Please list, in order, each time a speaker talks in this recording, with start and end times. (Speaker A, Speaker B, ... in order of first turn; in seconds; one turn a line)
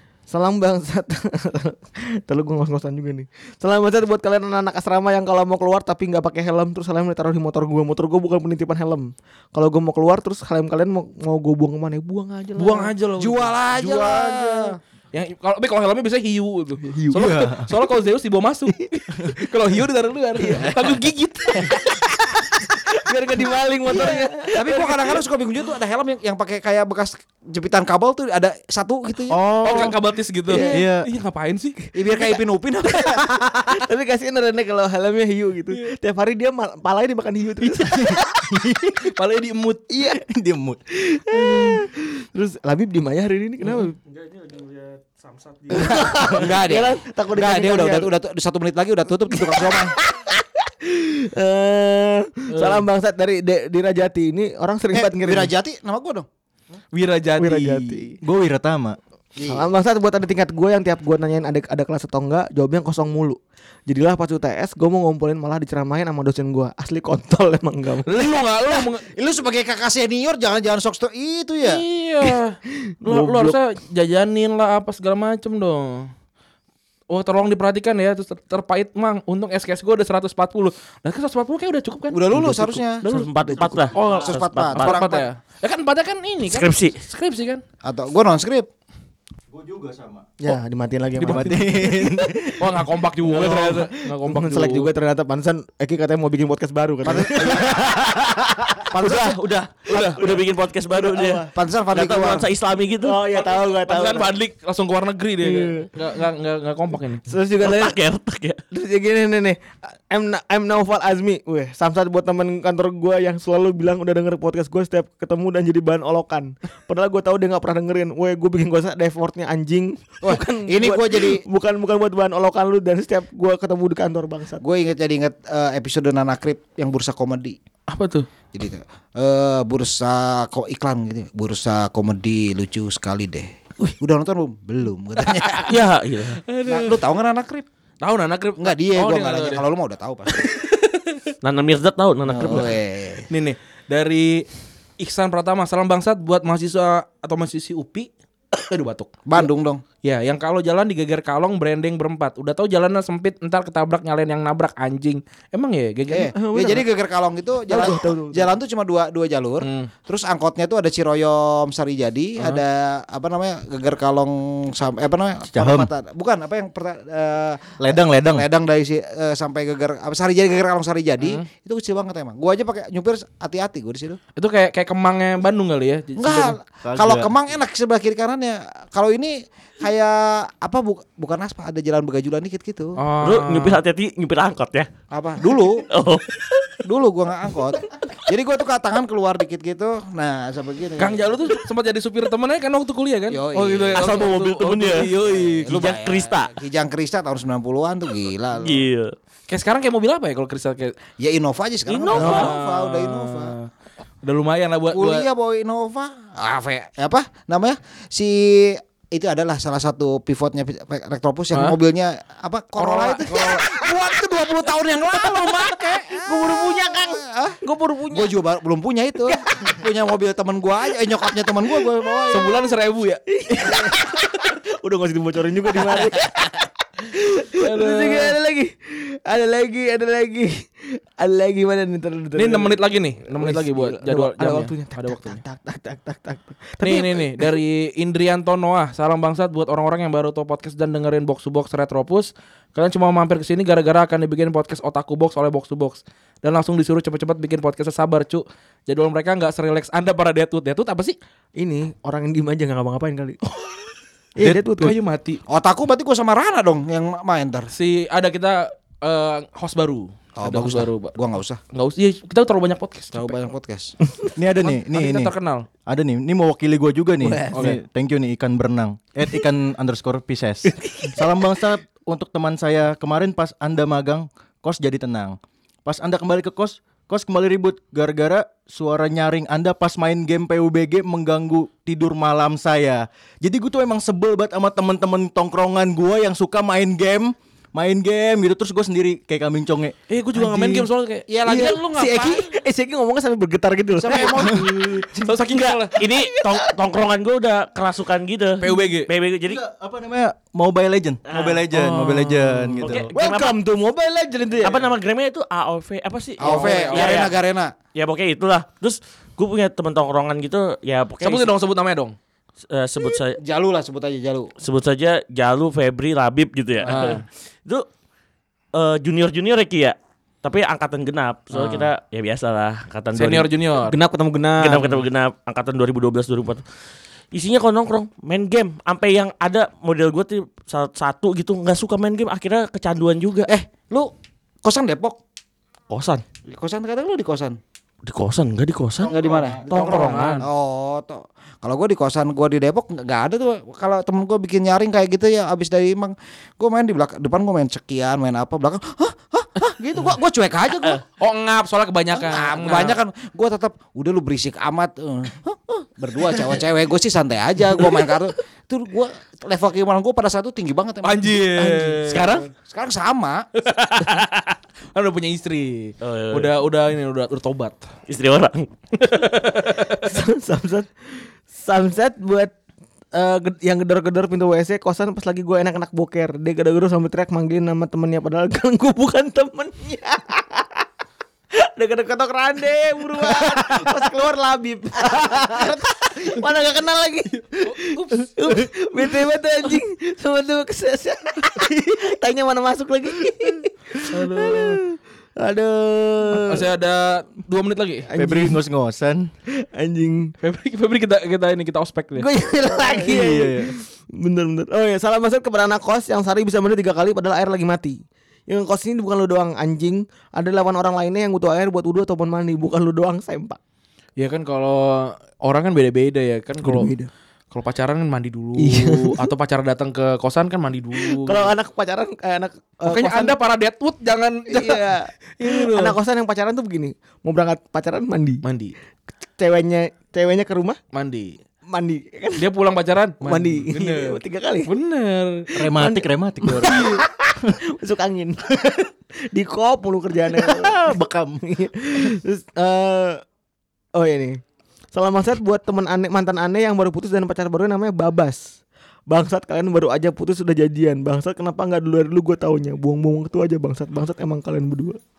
Speaker A: 0.3-12.9
Speaker B: 12.6-21.8
Speaker C: 13.2-14.8
Speaker A: 16.9-17.3
Speaker D: 17.1-17.7
Speaker A: 20.4-20.8
Speaker A: 21.5-25.2
Speaker C: 23.9-29.4
Speaker D: 29.3-29.9
Speaker B: 29.6-31.8
Speaker A: 30.5-30.8
Speaker D: 30.6-31.1
Speaker C: 31.9-33.2
Speaker A: 33.2-38.6
Speaker D: 38.0-39.1
Speaker B: 39.1-39.9
Speaker A: 39.9-40.2
Speaker D: 40.1-40.8
Speaker A: 40.9-44.0
Speaker B: 41.3-41.8
Speaker B: 43.7-46.4
Speaker A: 45.7-48.1
Speaker C: 46.1-50.0
Speaker A: 49.5-55.5
Speaker B: 52.5-52.8
Speaker C: 54.9-56.3
Speaker B: 56.9-58.1
Speaker A: 57.4-58.1
Speaker D: 58.2-59.0
Speaker C: 59.4-59.6
Speaker A: 59.5-68.2
Speaker B: 68.0-69.0
Speaker C: 68.8-71.8
Speaker B: 71.6-76.1
Speaker A: 73.0-73.6
Speaker B: 77.1-83.3
Speaker C: 82.1-83.0
Speaker E: 83.0-85.0
Speaker D: 83.6-84.2
Speaker B: 83.9-87.6
Speaker C: 84.1-85.3
Speaker E: 86.5-87.0
Speaker C: 87.8-88.7
Speaker D: 89.5-90.6
Speaker A: 90.4-92.3
Speaker D: 91.2-92.8
Speaker B: 91.2-91.5
Speaker B: 92.6-94.9
Speaker A: 93.2-97.8
Speaker C: 97.0-97.8
Speaker D: 97.4-100.1
Speaker A: 98.9-99.3
Speaker E: 99.0-103.2
Speaker A: 99.9-100.3
Speaker A: 100.9-101.5
Speaker C: 101.5-102.5
Speaker A: 103.0-104.3
Speaker B: 103.3-107.2
Speaker A: 105.4-105.9
Speaker A: 107.3-108.0
Speaker E: 107.6-108.6
Speaker A: 108.7-124.6
Speaker C: 120.2-121.4
Speaker C: 124.6-127.6
Speaker B: 127.9-128.3
Speaker C: 128.5-135.8
Speaker B: 135.4-135.7
Speaker E: 135.6-136.4
Speaker B: 136.4-137.0
Speaker C: 136.6-137.7
Speaker B: 138.0-139.6
Speaker C: 138.6-140.5
Speaker B: 140.3-141.2
Speaker E: 141.4-142.7
Speaker C: 142.2-143.3
Speaker B: 143.3-144.4
Speaker B: 145.0-149.4
Speaker C: 149.2-149.8
Speaker B: 150.0-156.3
Speaker C: 156.1-174.2
Speaker A: 156.3-156.8
Speaker A: 157.7-158.5
Speaker B: 159.6-159.9
Speaker D: 165.5-165.9
Speaker D: 167.8-168.5
Speaker B: 174.4-176.6
Speaker C: 176.2-183.0
Speaker D: 176.8-177.3
Speaker B: 183.0-183.8
Speaker E: 183.2-184.9
Speaker C: 185.1-185.8
Speaker E: 185.9-186.2
Speaker C: 186.8-191.5
Speaker B: 191.0-195.7
Speaker C: 193.3-194.3
Speaker E: 193.9-195.1
Speaker C: 195.0-198.9
Speaker E: 195.7-196.5
Speaker E: 198.6-199.1
Speaker B: 199.5-200.9
Speaker C: 201.2-203.6
Speaker E: 201.9-202.5
Speaker B: 202.1-203.7
Speaker B: 204.2-205.3
Speaker C: 204.9-222.6
Speaker B: 212.8-213.5
Speaker A: 216.1-218.3
Speaker B: 222.3-223.9
Speaker A: 223.3-232.8
Speaker B: 227.5-228.3
Speaker B: 232.3-235.4
Speaker A: 233.3-237.6
Speaker B: 236.8-251.2
Speaker A: 251.6-253.4
Speaker A: 254.4-254.9
Speaker D: 254.4-254.9
Speaker B: 254.8-255.4
Speaker C: 255.5-257.7
Speaker B: 257.7-261.1
Speaker C: 260.4-261.6
Speaker B: 261.7-263.4
Speaker C: 263.1-263.9
Speaker D: 264.4-265.3
Speaker B: 264.6-265.6
Speaker D: 265.9-289.9
Speaker A: 267.2-267.7
Speaker B: 267.5-267.8
Speaker A: 270.9-271.2
Speaker B: 290.1-291.3
Speaker A: 290.4-290.9
Speaker C: 291.3-292.5
Speaker A: 291.4-294.7
Speaker C: 294.0-295.3
Speaker B: 294.9-296.0
Speaker E: 295.4-299.6
Speaker A: 296.0-296.7
Speaker B: 298.6-299.1
Speaker D: 299.4-303.1
Speaker E: 301.3-301.7
Speaker A: 301.7-304.9
Speaker E: 302.8-303.6
Speaker E: 304.6-307.3
Speaker C: 306.4-307.7
Speaker B: 306.4-307.3
Speaker E: 307.9-311.5
Speaker B: 311.2-312.1
Speaker E: 312.7-313.4
Speaker C: 313.4-314.5
Speaker E: 314.6-317.9
Speaker C: 316.8-317.1
Speaker B: 316.9-317.2
Speaker E: 318.7-323.5
Speaker B: 321.5-321.9
Speaker B: 323.1-323.9
Speaker A: 323.9-325.0
Speaker E: 324.6-326.6
Speaker E: 327.3-333.5
Speaker C: 333.5-334.1
Speaker C: 334.6-335.2
Speaker E: 335.9-336.2
Speaker C: 336.4-337.6
Speaker E: 338.0-340.4
Speaker D: 339.0-339.7
Speaker C: 339.1-351.0
Speaker B: 339.8-340.5
Speaker B: 351.2-353.0
Speaker C: 352.1-361.4
Speaker B: 361.0-362.5
Speaker A: 361.6-362.1
Speaker E: 362.1-362.4
Speaker C: 362.5-363.5
Speaker B: 363.6-367.8
Speaker E: 366.0-366.5
Speaker E: 368.1-369.3
Speaker B: 369.0-369.9
Speaker A: 369.9-372.5
Speaker A: 373.1-380.8
Speaker A: 381.6-396.6
Speaker B: 387.5-388.3
Speaker B: 394.1-394.8
Speaker B: 396.3-398.1
Speaker A: 398.1-398.6
Speaker D: 398.1-399.3
Speaker A: 399.5-400.3
Speaker B: 400.4-402.3
Speaker A: 402.1-413.6
Speaker D: 403.0-403.7
Speaker B: 414.2-416.9
Speaker A: 416.6-417.1
Speaker B: 417.5-421.5
Speaker A: 418.6-419.3
Speaker A: 420.9-423.4
Speaker B: 422.9-426.0
Speaker A: 424.5-428.4
Speaker B: 428.4-428.7
Speaker A: 429.4-430.8
Speaker B: 430.9-431.4
Speaker A: 431.7-432.4
Speaker B: 432.4-435.5
Speaker A: 433.2-434.7
Speaker D: 435.6-437.0
Speaker A: 435.6-443.2
Speaker B: 436.6-437.0
Speaker D: 440.4-441.4
Speaker A: 443.9-444.4
Speaker A: 444.9-448.5
Speaker A: 449.1-455.0